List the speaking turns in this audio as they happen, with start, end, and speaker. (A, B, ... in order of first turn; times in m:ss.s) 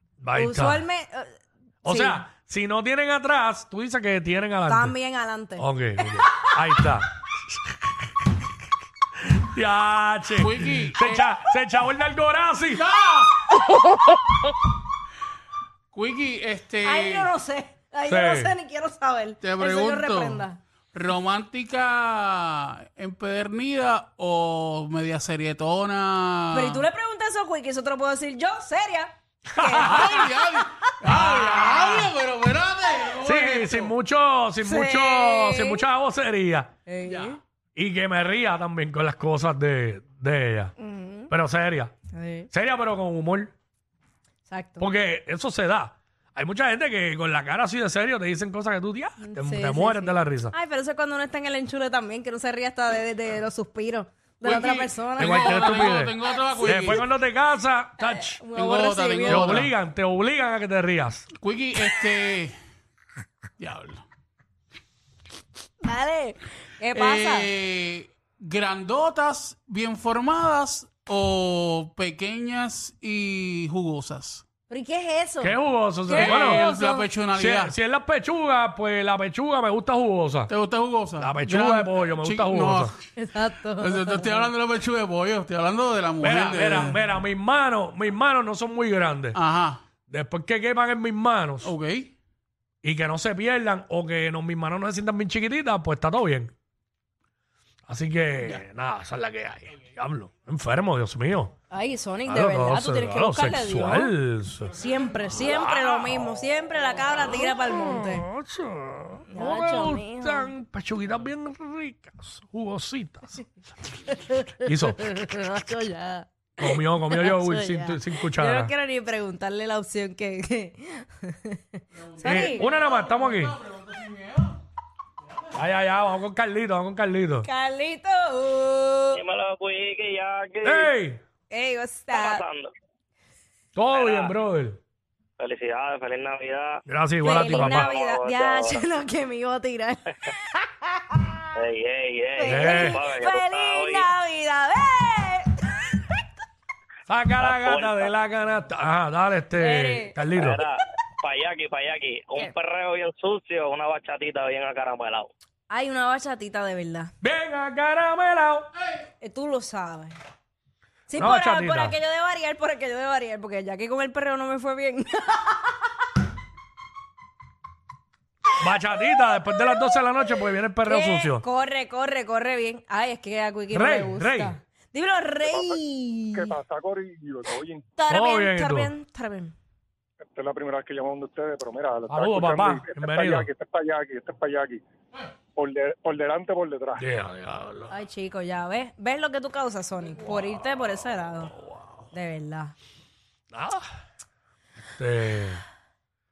0:00.2-0:00.8 A
0:00.4-0:02.2 B
0:01.8-0:05.0 A
0:04.7-0:05.7 B
0:05.6-0:08.0 A
0:09.2-0:12.8 A
0:10.3-0:11.3 C
0:12.7-0:13.3 C
0:15.9-0:17.3 C
0:16.8-0:20.6 B
0:18.1-0:18.6 A
0:19.4-0:26.8 C
0:26.5-0:30.6 B
0:29.5-0:30.3 A
0:29.8-0:34.0 C
0:31.0-0:32.1 A
0:33.2-0:36.7 A
0:34.6-0:35.8 B
0:36.9-0:37.4 B
0:37.0-0:37.4 C
0:37.8-0:40.7 A
0:40.8-0:41.3 B
0:41.3-0:42.0 A
0:42.1-0:42.5 B
0:42.5-0:43.5 A
0:44.5-0:44.9 B
0:44.8-0:50.5 A
0:49.2-0:56.0 B
0:54.4-0:57.1 C
0:55.2-0:58.4 A
0:58.0-0:59.7 B
0:58.5-0:59.7 C
0:59.3-1:01.3 A
1:01.3-1:02.6 C
1:03.6-1:04.0 C
1:05.8-1:07.5 B
1:07.0-1:14.4 C
1:14.7-1:17.1 B
1:15.4-1:16.6 A
1:16.1-1:17.8 C
1:17.4-1:20.5 A
1:20.5-1:23.0 C
1:21.2-1:22.9 A
1:23.2-1:24.5 B
1:23.8-1:27.0 C
1:26.2-1:29.4 A
1:29.3-1:29.8 C
1:30.0-1:31.7 A
1:31.6-1:32.1 C
1:32.8-1:36.5 A
1:37.9-1:41.5 A
1:41.7-1:44.1 B
1:42.3-1:44.8 A
1:44.7-1:48.3 B
1:45.6-1:46.0 A
1:47.2-1:53.5 A
1:49.3-1:50.5 B
1:54.0-2:02.7 B
1:54.6-1:55.2 A
1:56.6-1:58.7 A
2:02.0-2:04.6 C
2:02.2-2:03.6 A
2:05.5-2:07.5 A
2:07.4-2:09.2 B
2:09.2-2:10.9 D
2:10.6-2:11.2 A
2:11.5-2:12.4 B
2:12.1-2:12.7 D
2:13.8-2:14.8 A
2:13.9-2:14.3 D
2:15.4-2:16.8 D
2:16.9-2:17.9 A
2:17.2-2:21.5 B
2:17.4-2:18.8 D
2:21.6-2:24.1 D
2:22.4-2:26.0 B
2:22.5-2:23.0 A
2:27.1-2:30.6 A
2:27.4-2:28.1 D
2:29.6-2:30.2 B
2:30.3-2:35.3 D
2:35.7-2:37.1 B
2:37.2-2:38.7 A
2:39.2-2:40.2 B
2:41.1-2:45.9 B
2:41.2-2:42.0 A
2:48.6-2:51.4 A
2:50.8-2:56.5 B
2:53.7-2:54.6 A
2:55.5-2:55.8 E
2:56.4-2:57.9 E
2:58.0-2:59.5 B
2:58.1-2:58.9 A
3:00.3-3:04.8 E
3:02.1-3:03.5 A
3:05.6-3:07.0 E
3:07.0-3:07.9 A
3:07.9-3:11.6 B
3:12.1-3:12.7 B
3:13.5-3:13.9 A
3:15.0-3:15.6 A